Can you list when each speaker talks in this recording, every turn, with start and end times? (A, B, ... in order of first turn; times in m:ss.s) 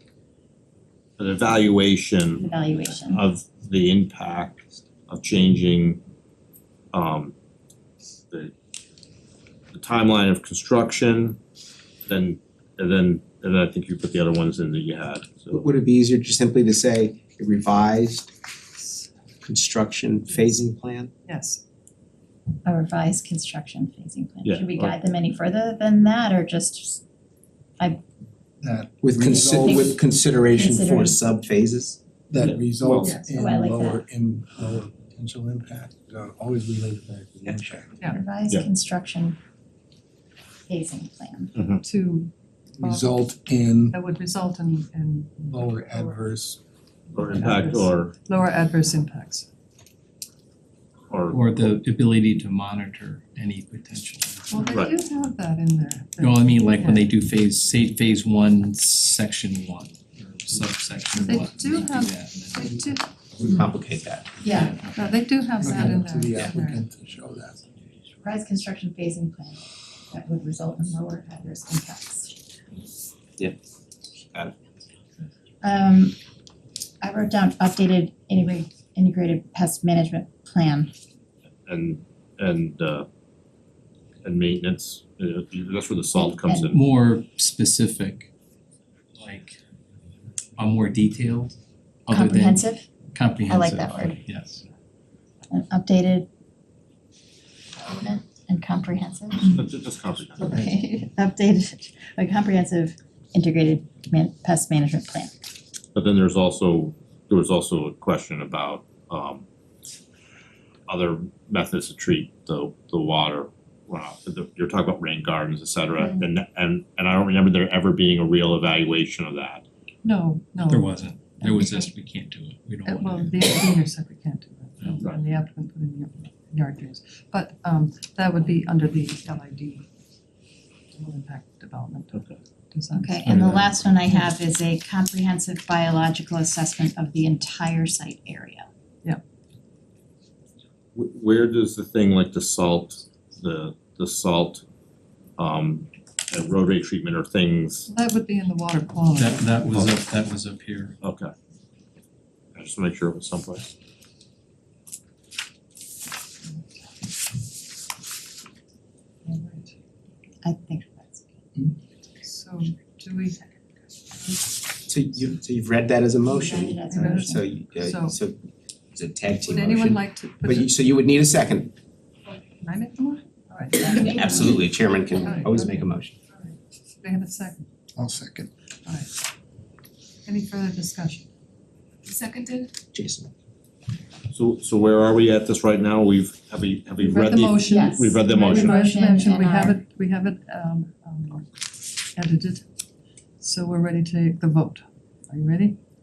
0:01.2-0:02.5 A
0:02.4-0:03.2 B
0:03.0-0:06.0 A
0:06.9-0:07.3 A
0:09.7-0:11.4 A
0:12.1-0:15.7 A
0:15.5-0:18.3 C
0:18.8-0:19.1 D
0:19.4-0:21.1 C
0:21.3-0:21.6 D
0:22.6-0:27.0 B
0:24.4-0:25.0 A
0:28.6-0:30.0 E
0:29.0-0:32.0 C
0:29.3-0:31.2 B
0:32.3-0:37.9 E
0:32.4-0:33.2 A
0:33.0-0:34.0 B
0:38.1-0:39.4 B
0:40.7-0:41.6 B
0:41.6-0:41.8 A
0:41.8-0:43.2 D
0:42.8-0:44.0 E
0:43.9-0:46.2 D
0:45.5-0:46.6 E
0:47.1-0:48.2 A
0:47.3-0:49.5 D
0:51.1-0:51.7 A
0:51.3-0:54.5 F
0:54.5-0:57.2 D
0:54.6-0:54.9 A
0:56.2-1:02.7 F
1:01.1-1:03.1 D
1:03.4-1:04.3 C
1:04.4-1:04.8 B
1:04.9-1:06.9 D
1:05.6-1:07.6 E
1:05.6-1:06.0 B
1:08.2-1:12.4 B
1:15.6-1:16.2 B
1:17.0-1:20.9 B
1:21.7-1:23.1 A
1:24.2-1:26.9 A
1:26.1-1:26.7 B
1:26.7-1:28.3 F
1:29.2-1:29.6 F
1:30.6-1:34.6 F
1:32.1-1:32.9 B
1:33.5-1:34.2 B
1:35.5-1:36.3 B
1:37.8-1:39.6 B
1:39.4-1:40.6 A
1:40.4-1:45.4 B
1:46.0-1:49.4 A
1:50.9-1:59.6 A
1:56.0-1:56.3 B
2:00.0-2:01.9 D
2:00.7-2:03.4 F
2:02.8-2:09.8 D
2:10.9-2:12.2 D
2:12.1-2:12.4 A
2:12.7-2:14.0 D
2:12.9-2:18.7 B
2:13.3-2:13.6 F
2:21.0-2:24.6 A
2:25.4-2:27.9 A
2:27.9-2:29.8 D
2:29.2-2:31.0 F
2:29.7-2:30.0 A
2:31.0-2:31.3 A
2:32.6-2:33.7 A
2:39.2-2:39.7 D
2:40.4-2:41.4 B
2:42.2-2:43.4 D
2:44.9-2:48.4 C
2:46.3-2:47.5 B
2:46.9-2:48.2 D
2:48.9-2:51.7 C
2:49.4-2:50.7 D
2:52.6-2:57.7 D
2:53.9-2:56.1 C
2:58.0-2:58.5 E
3:00.3-3:01.3 D
3:02.9-3:03.3 C
3:04.3-3:08.8 A
3:07.0-3:11.5 D
3:07.6-3:09.8 B
3:12.2-3:12.6 D
3:13.4-3:15.8 D